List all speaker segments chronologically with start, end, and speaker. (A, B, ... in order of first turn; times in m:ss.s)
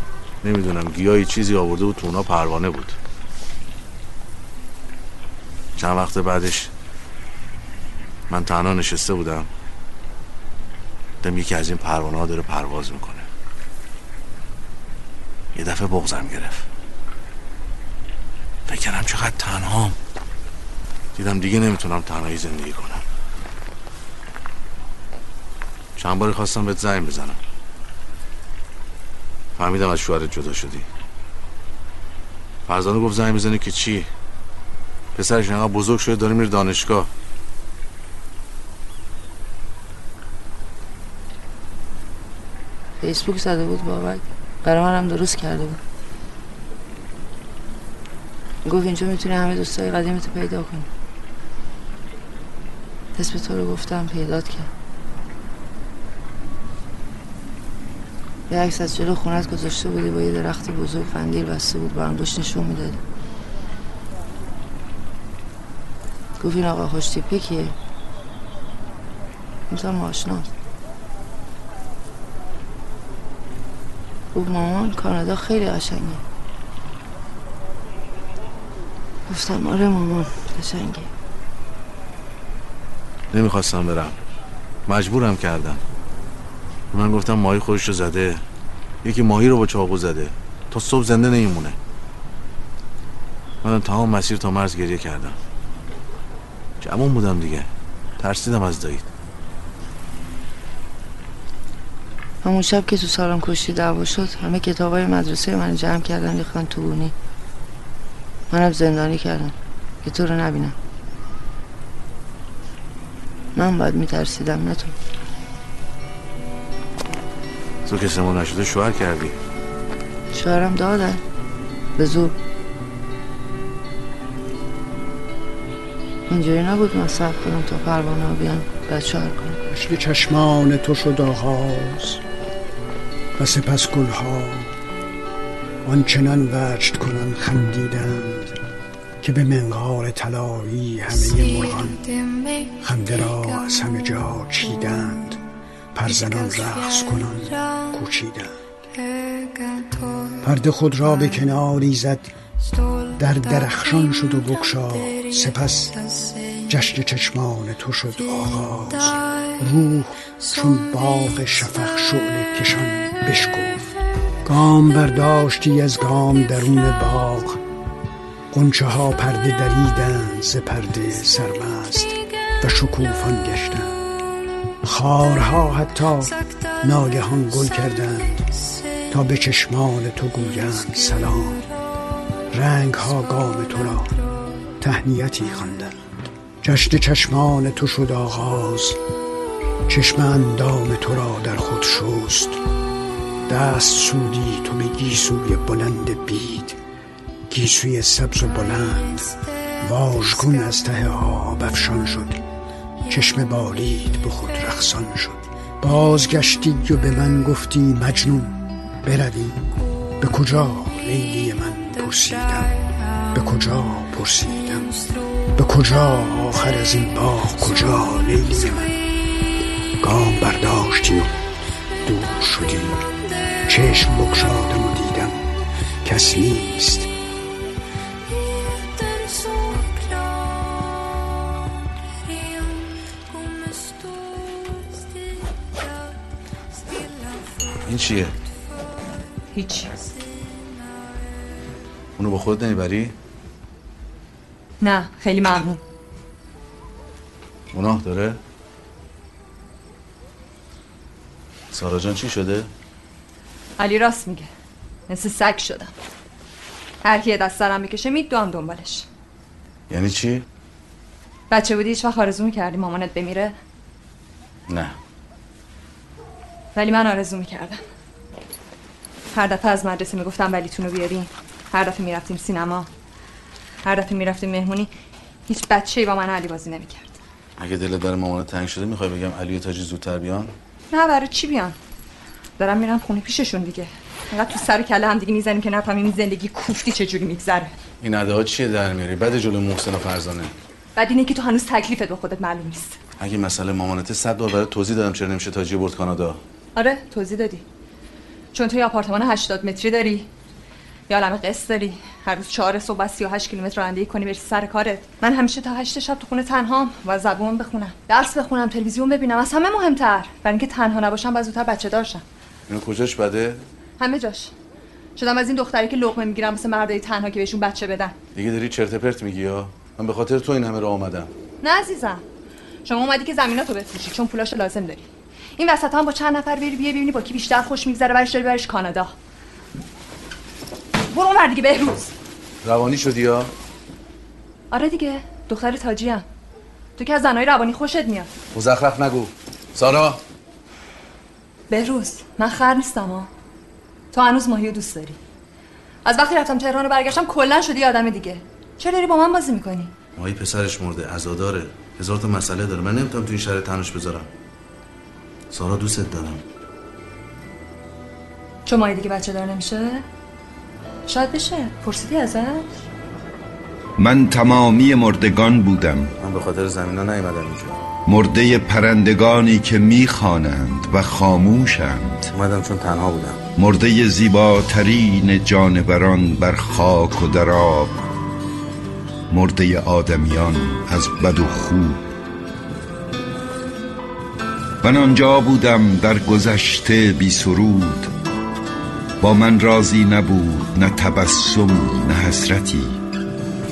0:00.4-0:03.0 A
0:05.8-0:06.7 A
0:08.3-0:09.5 A
0:11.2-0:13.3 A
0:15.5-0:16.6 A
0:18.7-0:20.0 A
0:21.1-0:23.0 A
0:26.0-0:27.4 A
0:29.6-0:30.9 A
0:32.7-0:34.1 A
0:35.1-0:37.1 A
0:43.0-0:45.8 B
0:48.6-0:50.9 B
0:53.2-0:54.7 B
0:58.5-1:03.0 B
1:06.4-1:07.7 B
1:09.7-1:10.5 B
1:14.3-1:16.2 B
1:19.3-1:21.1 B
1:23.3-1:24.2 A
1:24.8-1:25.8 A
1:26.9-1:28.4 A
1:29.0-1:31.8 A
1:33.6-1:35.4 A
1:36.8-1:39.0 A
1:42.4-1:47.1 B
1:48.5-1:50.8 B
1:53.5-1:54.9 B
1:57.8-1:59.4 A
2:00.3-2:01.2 B
2:02.0-2:02.4 B
2:06.3-2:09.6 B
2:09.7-2:12.2 C
2:13.4-2:14.7 C
2:15.8-2:18.6 C
2:19.2-2:22.0 C
2:22.8-2:25.4 C
2:25.9-2:28.5 C
2:30.4-2:32.3 C
2:33.2-2:36.0 C
2:36.7-2:47.6 C
2:48.5-2:54.0 C
2:54.8-2:58.5 C
2:59.1-3:01.6 C
3:02.5-3:04.2 C
3:04.8-3:06.0 C
3:06.6-3:09.0 C
3:09.9-3:12.6 C
3:13.5-3:16.8 C
3:17.5-3:22.4 C
3:23.1-3:29.6 C
3:30.2-3:32.8 C
3:33.3-3:34.9 C
3:35.5-3:39.0 C
3:40.0-3:41.3 C
3:42.0-3:43.0 C
3:43.6-3:45.4 C
3:46.0-3:47.1 C
3:57.8-3:58.3 A
3:59.5-4:00.0 D
4:02.2-4:03.1 A
4:04.8-4:05.8 D
4:07.7-4:08.4 A
4:11.7-4:12.7 A
4:13.8-4:14.5 D
4:15.1-4:15.9 D
4:17.0-4:19.1 D
4:19.9-4:20.4 A
4:21.5-4:23.5 D
4:24.7-4:24.9 A
4:26.7-4:27.8 D
4:29.3-4:32.9 D
4:33.8-4:34.9 D
4:35.5-4:37.2 D
4:37.6-4:40.5 A
4:40.9-4:41.8 D
4:42.6-4:47.8 D
4:48.0-4:50.5 A
4:51.0-4:53.0 D
4:53.2-4:56.4 A
4:56.8-4:57.6 D
4:58.5-5:00.3 D
5:01.1-5:12.2 D
5:12.7-5:13.6 A
5:14.0-5:14.5 D
5:15.2-5:18.2 D
5:18.3-5:21.3 A
5:21.6-5:22.2 D
5:22.8-5:29.1 D
5:31.1-5:32.1 D
5:32.6-5:33.5 A
5:34.7-5:36.2 D
5:37.0-5:38.3 D
5:38.5-5:40.2 A
5:41.7-5:43.3 D
5:44.1-5:45.2 D
5:46.0-5:49.9 D
5:50.2-5:54.3 A
5:55.5-5:56.4 A
5:58.6-6:00.0 D
6:01.1-6:02.8 D
6:04.0-6:06.1 E
6:06.2-6:07.8 A
6:08.1-6:12.3 E
6:12.3-6:13.4 A
6:13.6-6:17.9 E
6:19.3-6:22.0 E
6:24.8-6:28.1 E
6:29.2-6:33.0 E